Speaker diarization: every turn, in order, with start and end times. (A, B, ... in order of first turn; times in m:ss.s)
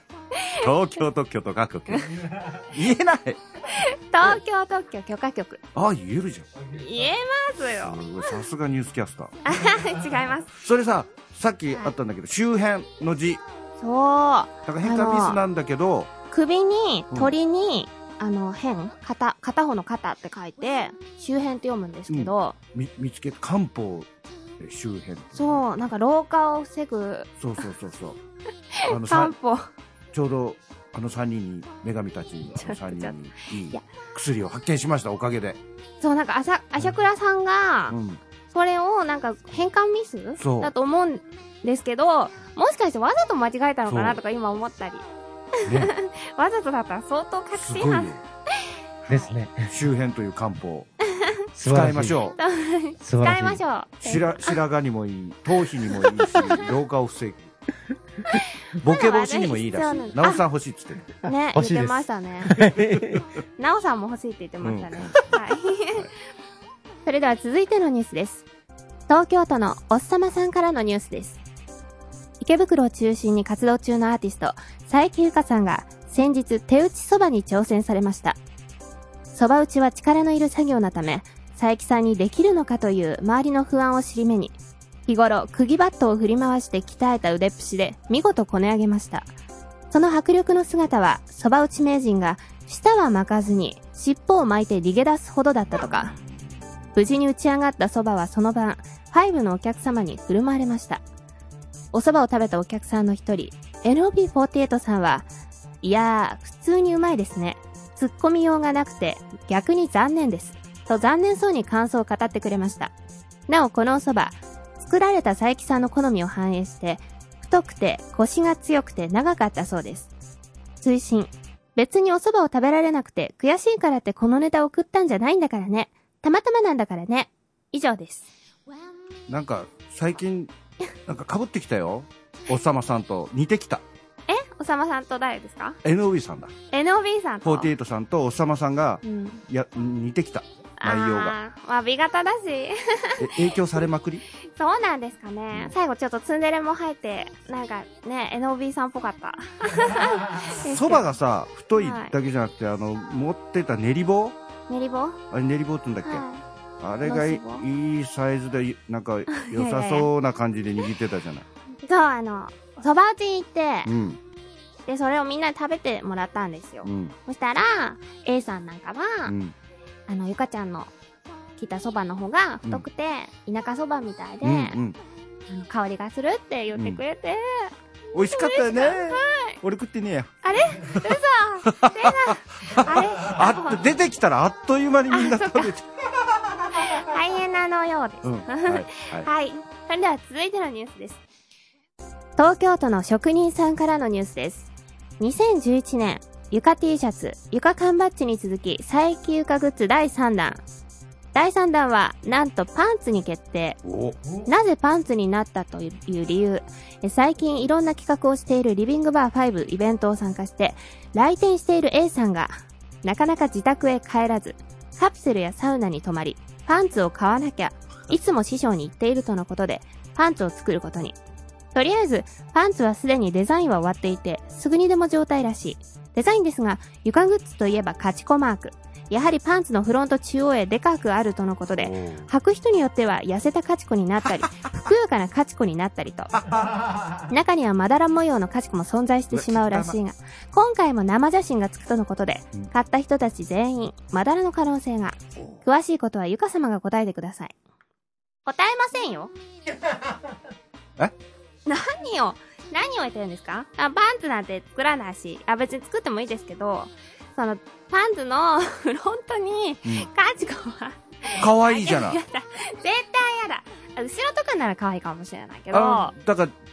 0:00.4-0:00.6 A
0:00.6-0:03.4 B
0:03.7-0:05.6 A
0:05.7-0:06.6 B
0:06.7-0:08.0 A
0:07.8-0:09.4 B
0:09.4-0:10.5 A
0:10.6-0:13.4 B
0:13.8-0:15.4 A
0:14.6-0:16.1 B
0:16.3-0:22.6 A
0:22.1-0:25.6 B
0:25.3-0:27.3 A
0:27.4-0:28.2 B
0:28.8-0:29.7 A
0:28.9-0:29.3 B
0:30.1-0:35.6 B
0:32.6-0:33.1 A
0:36.0-0:37.9 A
0:37.9-0:38.2 B
0:38.5-0:45.0 A
0:40.4-0:40.7 B
0:43.9-0:44.2 B
0:45.6-0:45.9 B
0:45.7-0:48.1 A
0:47.5-0:48.2 B
0:49.0-0:49.3 A
0:49.1-0:49.7 C
0:49.7-0:50.9 B
0:51.6-0:52.2 C
0:51.6-0:52.4 B
0:52.4-0:54.5 A
0:53.0-0:53.6 C
0:54.0-0:57.5 B
0:56.0-0:56.5 A
0:58.8-1:01.1 B
0:58.8-1:00.4 A
1:01.2-1:02.5 A
1:01.5-1:03.2 C
1:02.8-1:03.2 B
1:03.6-1:06.0 A
1:04.6-1:05.4 B
1:07.0-1:08.4 A
1:09.1-1:11.4 A
1:12.4-1:18.4 A
1:19.3-1:24.5 A
1:25.1-1:29.2 A
1:29.9-1:36.1 A
1:37.0-1:41.0 A
1:41.9-1:45.3 A
1:45.8-1:52.9 A
1:53.5-2:00.1 A
2:00.8-2:08.3 A
2:09.3-2:10.5 B
2:11.0-2:13.8 B
2:14.3-2:15.8 A
2:15.8-2:16.5 B
2:16.7-2:17.7 A
2:17.4-2:21.3 B
2:19.0-2:19.4 A
2:20.8-2:23.3 A
2:23.2-2:24.2 B
2:24.6-2:31.1 A
2:30.6-2:34.4 B
2:31.7-2:32.1 A
2:34.7-2:35.2 A
2:35.3-2:36.2 B
2:36.0-2:36.4 A
2:36.8-2:41.5 B
2:37.0-2:37.6 A
2:39.5-2:40.1 A
2:41.8-2:43.9 A
2:43.8-2:44.2 B
2:44.9-2:49.3 A
2:46.8-2:47.1 B
2:49.2-2:49.5 B
2:50.1-2:50.9 A
2:51.6-2:54.8 A
2:54.4-2:55.0 B
2:55.5-2:57.7 A
2:56.7-2:57.0 B
2:58.1-3:01.0 B
2:58.3-2:59.6 A
3:00.4-3:03.8 A
3:01.7-3:05.8 B
3:05.1-3:05.7 A
3:06.8-3:11.2 A
3:08.2-3:09.3 B
3:12.4-3:20.6 A
3:21.3-3:23.8 A
3:23.8-3:24.2 B
3:24.4-3:41.2 A
3:41.7-3:56.3 A
3:51.8-3:52.3 B
3:56.3-3:56.9 B
3:57.3-4:07.5 A
3:59.3-4:00.0 B
4:08.4-4:09.3 A
4:11.6-4:26.1 A
4:21.4-4:22.2 B
4:25.7-4:26.6 B